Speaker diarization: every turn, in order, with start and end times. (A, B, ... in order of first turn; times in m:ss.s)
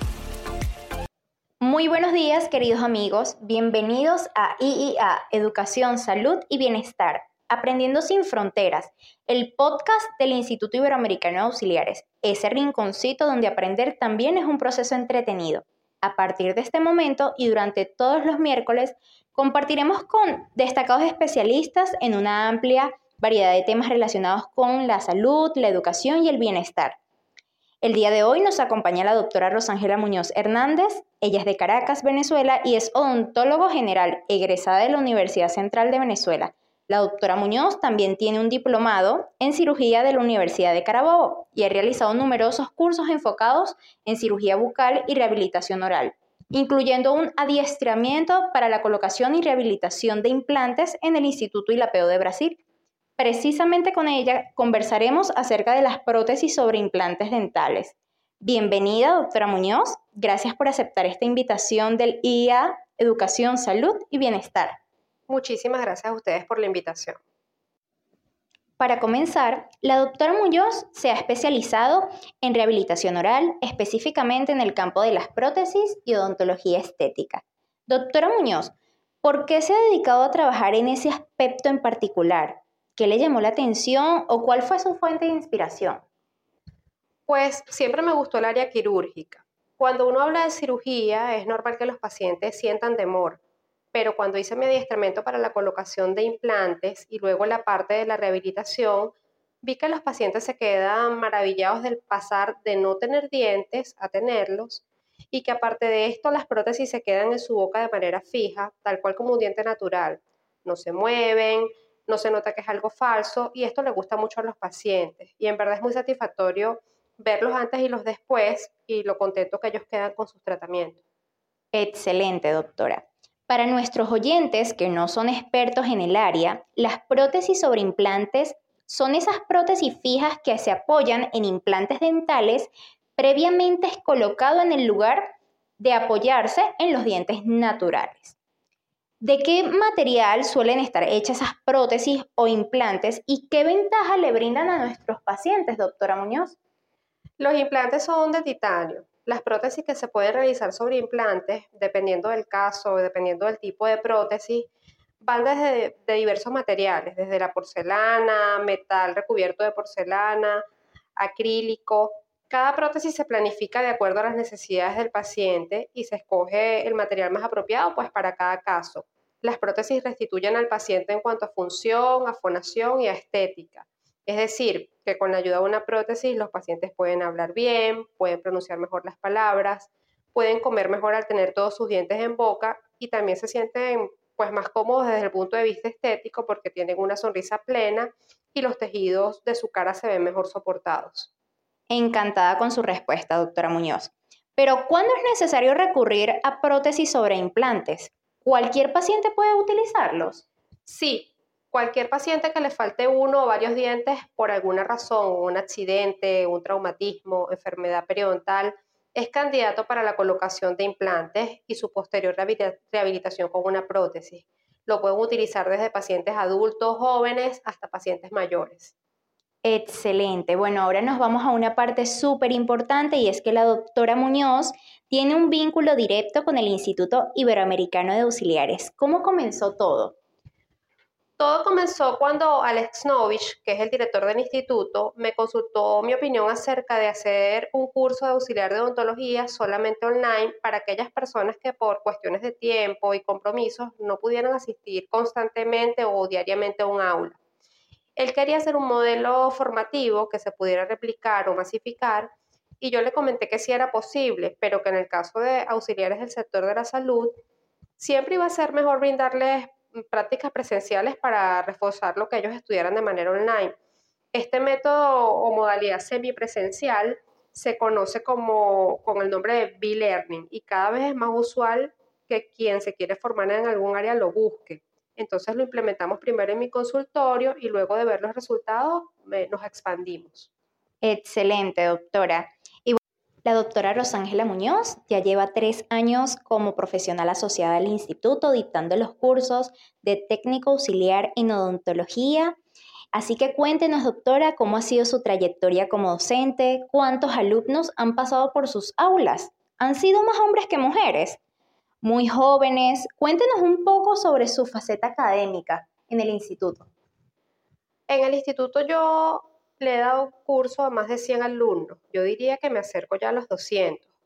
0:01.6-0:27.0 A
0:27.8-0:52.6 A
0:53.2-1:04.8 A
1:05.3-1:07.2 B
1:08.8-1:26.0 A
1:27.3-1:33.4 B
1:33.9-2:01.0 B
2:01.7-2:15.3 A
2:15.8-2:18.4 A
2:19.2-2:26.6 A
2:27.4-2:34.7 B
2:35.2-2:40.6 B
2:41.2-3:11.3 B
3:11.9-3:20.4 A
3:20.9-3:38.9 B
3:39.6-3:50.2 A
3:51.4-4:07.4 B
4:08.2-4:17.3 B
4:18.0-4:23.8 B
4:24.3-4:40.5 B
4:41.0-4:52.6 A
4:53.1-5:01.4 A
5:02.0-5:06.9 A
5:08.1-5:14.1 B